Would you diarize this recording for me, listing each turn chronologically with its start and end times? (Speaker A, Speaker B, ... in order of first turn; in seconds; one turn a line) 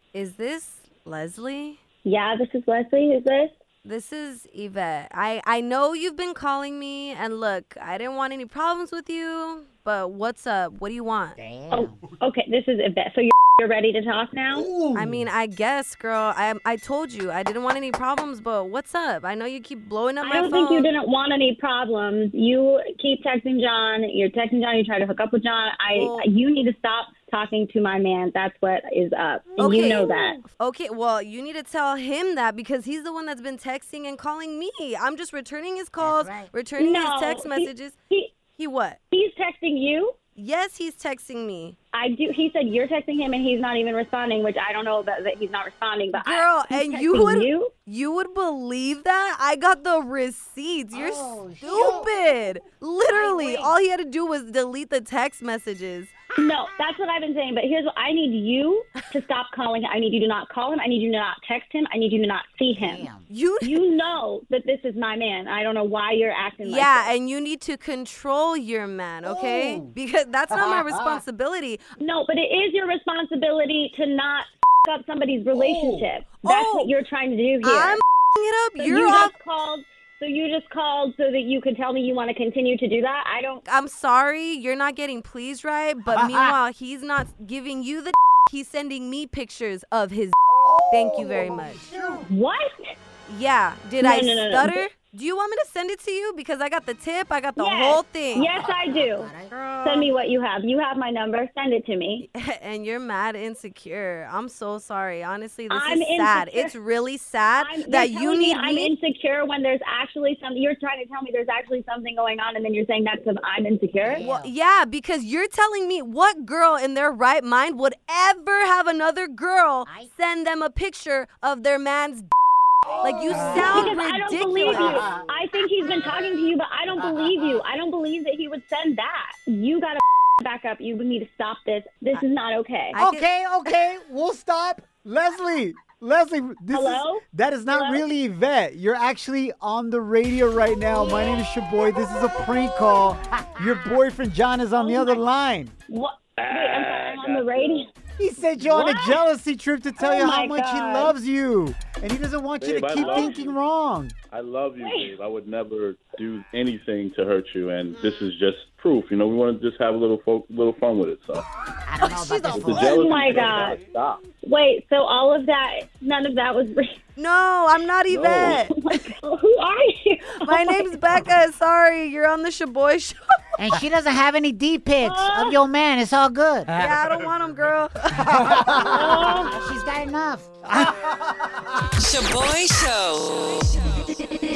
Speaker A: 0.1-1.8
Speaker B: 2.0-3.5
Speaker A: 3.8-11.4
Speaker C: 11.4-12.0
Speaker B: 11.7-14.7
Speaker D: 14.5-15.2
Speaker A: 14.9-20.9
Speaker B: 20.2-30.4
Speaker A: 25.9-26.2
Speaker A: 29.6-38.0
Speaker C: 29.6-30.4
Speaker C: 36.0-36.5
Speaker B: 36.8-38.3
Speaker A: 38.5-39.0
Speaker B: 39.1-40.1
Speaker A: 40.4-41.8
Speaker B: 41.9-47.7
Speaker A: 46.1-56.1
Speaker C: 50.9-52.1
Speaker C: 53.1-53.7
Speaker B: 56.4-63.1
Speaker C: 62.7-63.2
Speaker A: 63.3-63.9
Speaker B: 63.6-67.1
Speaker A: 66.6-71.9
Speaker C: 69.3-69.9
Speaker D: 70.5-71.2
Speaker B: 72.0-78.0
Speaker D: 75.5-76.1
Speaker A: 76.4-76.9
Speaker A: 77.6-79.3
Speaker B: 78.8-83.6
Speaker A: 83.6-90.4
Speaker D: 86.1-86.6
Speaker D: 90.6-92.2
Speaker C: 90.6-92.3
Speaker A: 90.9-91.8
Speaker B: 92.3-92.9
Speaker A: 93.3-98.5
Speaker B: 94.0-94.9
Speaker B: 97.6-99.3
Speaker C: 98.4-99.5
Speaker A: 99.5-100.1
Speaker B: 99.8-102.2
Speaker A: 102.2-108.9
Speaker B: 105.7-106.8
Speaker B: 107.6-114.2
Speaker C: 114.0-114.5
Speaker A: 114.2-122.3
Speaker C: 119.8-120.1
Speaker C: 122.9-123.9
Speaker A: 123.0-125.4
Speaker B: 123.3-132.9
Speaker C: 124.6-125.3
Speaker C: 126.9-127.6
Speaker A: 132.9-133.7
Speaker D: 132.9-145.7
Speaker B: 136.7-138.0
Speaker B: 141.0-141.4
Speaker C: 143.4-143.7
Speaker B: 144.8-145.2
Speaker B: 145.9-147.9
Speaker E: 146.4-147.8
Speaker D: 148.2-154.1
Speaker B: 148.6-149.2
Speaker B: 150.0-151.1
Speaker E: 152.6-153.6
Speaker E: 154.3-161.5
Speaker B: 154.8-155.1
Speaker C: 161.8-163.3
Speaker A: 162.0-162.8
Speaker E: 162.5-164.2
Speaker B: 162.8-163.8
Speaker B: 164.4-167.0
Speaker A: 167.2-169.1
Speaker E: 168.1-168.6
Speaker B: 168.4-171.0
Speaker A: 170.4-173.2
Speaker C: 173.6-176.8
Speaker B: 175.0-175.6
Speaker A: 176.7-178.5
Speaker D: 178.2-179.1
Speaker C: 178.4-180.6
Speaker B: 178.8-179.6
Speaker D: 180.6-181.9
Speaker F: 182.0-184.1